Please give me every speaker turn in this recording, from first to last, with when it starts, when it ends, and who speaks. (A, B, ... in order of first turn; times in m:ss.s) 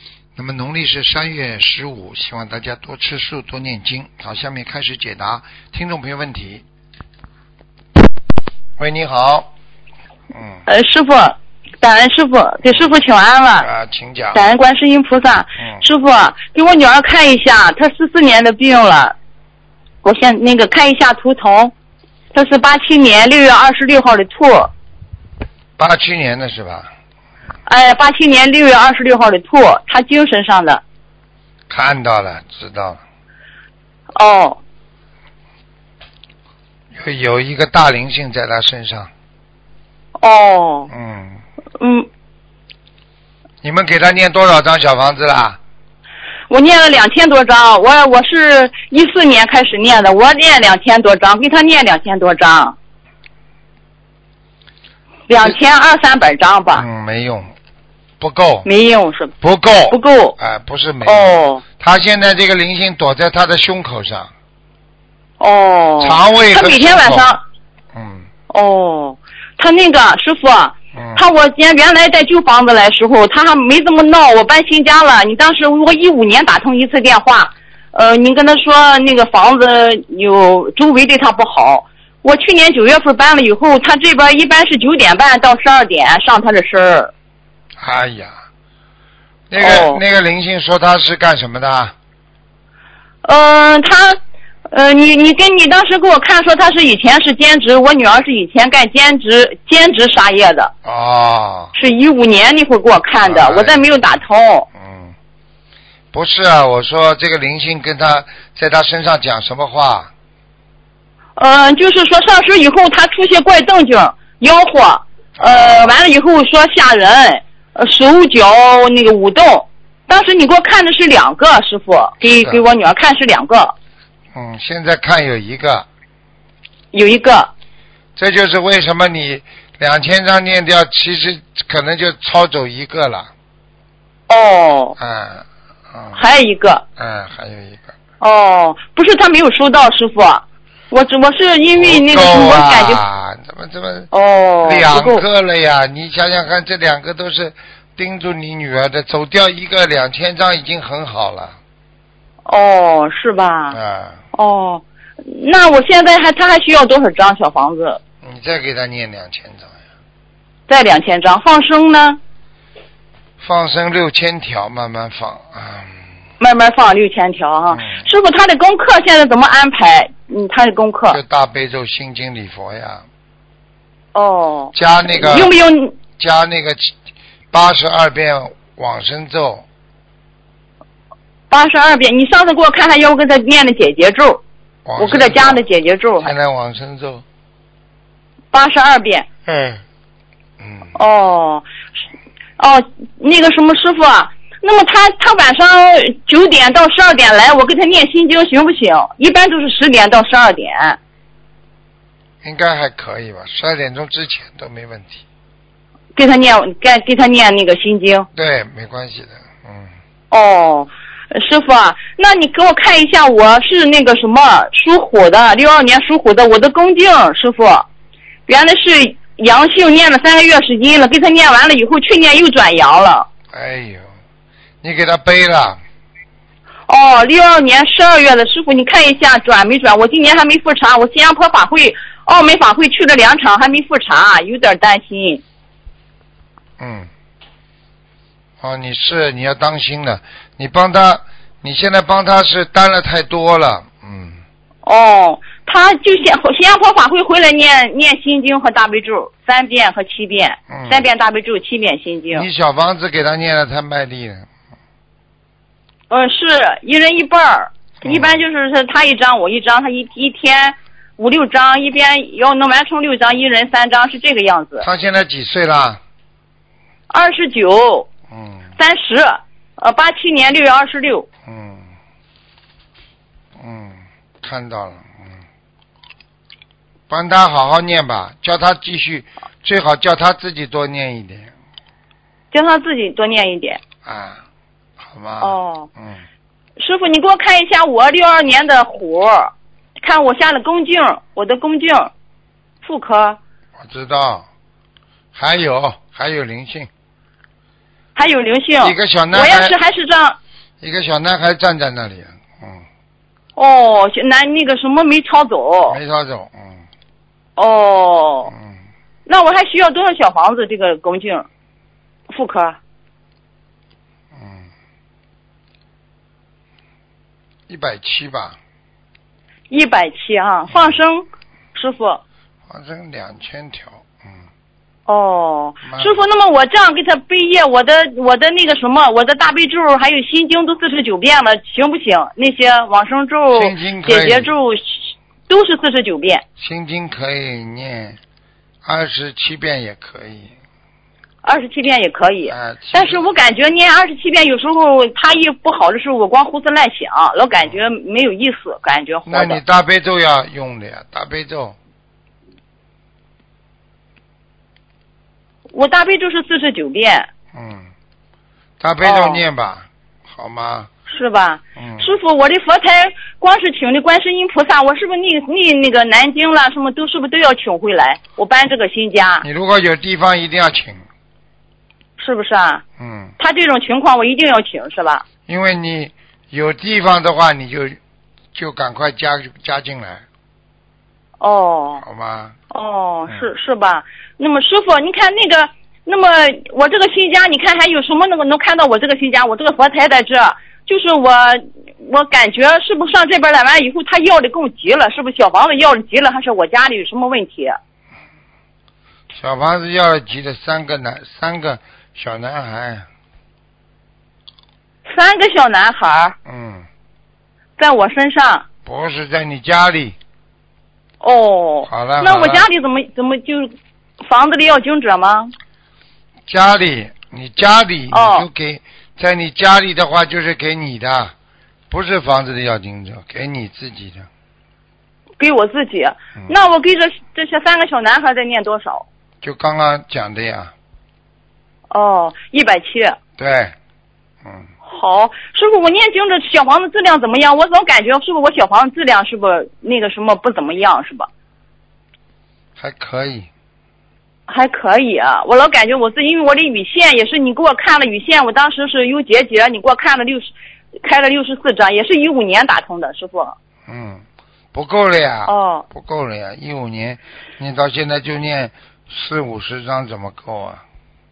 0:00.4-0:06.6 A
0:08.8-0:09.5 A
0:10.3-0:10.6 A
0:10.7-0:13.7 B
0:13.6-0:14.4 A
0:14.3-0:19.2 B
0:20.0-0:21.7 B
0:22.3-0:24.7 B
0:25.8-0:26.9 A
0:27.7-0:30.8 B
0:31.7-0:33.0 A
0:34.2-0:34.6 B
0:36.9-0:39.1 A
0:40.2-0:40.9 B
0:40.9-0:41.4 A
0:41.8-0:42.1 B
0:43.6-0:45.6 A
0:46.5-0:52.8 B
0:55.3-0:56.9 B
0:56.8-0:57.5 A
0:58.2-0:58.7 A
0:58.6-0:59.3 B
0:59.4-1:04.3 A
0:59.9-1:00.4 B
1:01.0-1:01.6 B
1:05.4-1:07.4 B
1:06.0-1:07.4 A
1:07.9-1:08.3 A
1:08.5-1:27.1 B
1:11.0-1:11.2 A
1:27.8-1:28.4 A
1:29.5-1:32.0 A
1:29.6-1:30.0 B
1:33.2-1:40.7 B
1:40.8-1:41.7 A
1:41.8-1:44.7 B
1:43.2-1:44.2 A
1:44.8-1:45.2 A
1:46.1-1:50.1 A
1:51.4-2:03.8 B
1:55.4-1:56.0 A
2:02.2-2:02.6 A
2:04.3-2:05.9 A
2:06.9-2:07.5 B
2:08.2-2:13.3 A
2:14.3-2:15.0 B
2:15.0-2:16.2 A
2:16.2-2:16.8 B
2:17.0-2:17.9 A
2:18.2-2:23.0 B
2:21.8-2:24.1 A
2:24.1-2:25.2 B
2:24.6-2:31.6 A
2:32.5-2:33.8 B
2:33.7-2:34.2 A
2:34.3-2:38.0 B
2:38.2-2:39.8 A
2:40.7-2:42.2 B
2:43.4-2:46.1 A
2:46.4-2:51.2 B
2:47.7-2:48.1 A
2:51.1-2:53.1 A
2:54.1-2:55.9 B
2:54.7-2:55.5 A
2:56.2-2:57.0 A
2:57.5-2:59.7 A
3:01.5-3:04.4 B
3:04.9-3:05.6 A
3:05.0-3:06.3 B
3:06.2-3:07.2 A
3:08.5-3:09.3 B
3:09.5-3:09.8 A
3:10.6-3:11.0 A
3:11.0-3:11.7 B
3:12.6-3:21.0 B
3:22.4-3:25.2 A
3:26.2-3:28.3 B
3:28.4-3:29.9 A
3:30.3-3:37.9 B
3:38.5-3:43.3 B
3:43.5-3:44.1 A
3:44.8-3:45.8 A
3:46.9-3:55.4 B
3:56.8-3:57.1 A
3:58.6-4:04.4 A
4:04.8-4:12.5 B
4:10.7-4:11.1 A
4:12.3-4:14.5 A
4:16.1-4:24.9 B
4:18.0-4:18.4 A
4:24.8-4:26.0 A
4:27.1-4:28.1 B
4:28.3-4:28.7 A
4:28.8-4:31.3 B
4:31.5-4:31.9 A
4:33.6-4:35.4 A
4:37.1-4:41.5 A
4:42.5-4:43.8 B
4:44.0-4:44.4 A
4:45.0-4:46.2 A
4:45.4-4:45.9 B
4:46.8-4:52.1 B
4:52.8-4:53.4 B
4:53.8-4:54.5 A
4:55.4-4:56.9 A
4:58.2-5:00.4 B
4:58.8-4:59.8 A
5:00.8-5:02.9 A
5:03.6-5:06.0 B
5:05.9-5:06.9 A
5:07.6-5:08.5 B
5:08.5-5:08.8 A
5:09.3-5:11.5 B
5:12.3-5:12.8 B
5:14.3-5:14.7 A
5:17.7-5:18.6 A
5:19.7-5:22.2 B
5:20.7-5:21.0 A
5:22.7-5:24.4 A
5:25.1-5:36.4 B
5:25.8-5:26.2 A
5:33.5-5:34.5 A
5:36.6-5:38.2 A
5:38.8-5:40.5 A
5:41.4-5:49.6 B
5:42.5-5:43.3 A
5:49.3-5:51.8 A
5:55.7-5:57.3 B
5:57.5-5:57.9 A
5:58.8-6:00.9 A
5:59.0-5:59.4 B
6:01.1-6:09.4 B
6:01.8-6:02.1 A
6:09.4-6:11.0 A
6:12.2-6:12.8 B
6:13.0-6:13.4 A
6:13.4-6:15.2 B
6:15.5-6:18.0 A
6:18.5-6:20.2 A
6:21.4-6:22.0 B
6:22.0-6:22.6 A
6:22.7-6:37.8 B
6:39.3-6:43.1 A
6:45.1-6:46.4 B
6:46.5-6:46.9 A
6:47.8-6:48.7 B
6:48.8-6:50.2 A
6:51.2-6:55.5 B
6:51.8-6:52.7 A
6:56.5-7:01.3 A
6:58.1-6:58.5 B
7:01.9-7:04.3 A
7:05.4-7:09.1 B
7:09.4-7:10.7 A
7:11.9-7:13.2 B
7:13.4-7:13.8 A
7:14.9-7:21.3 B
7:22.8-7:23.5 A
7:24.5-7:30.5 B
7:31.0-7:33.6 B
7:33.9-7:40.8 A
7:35.5-7:35.8 B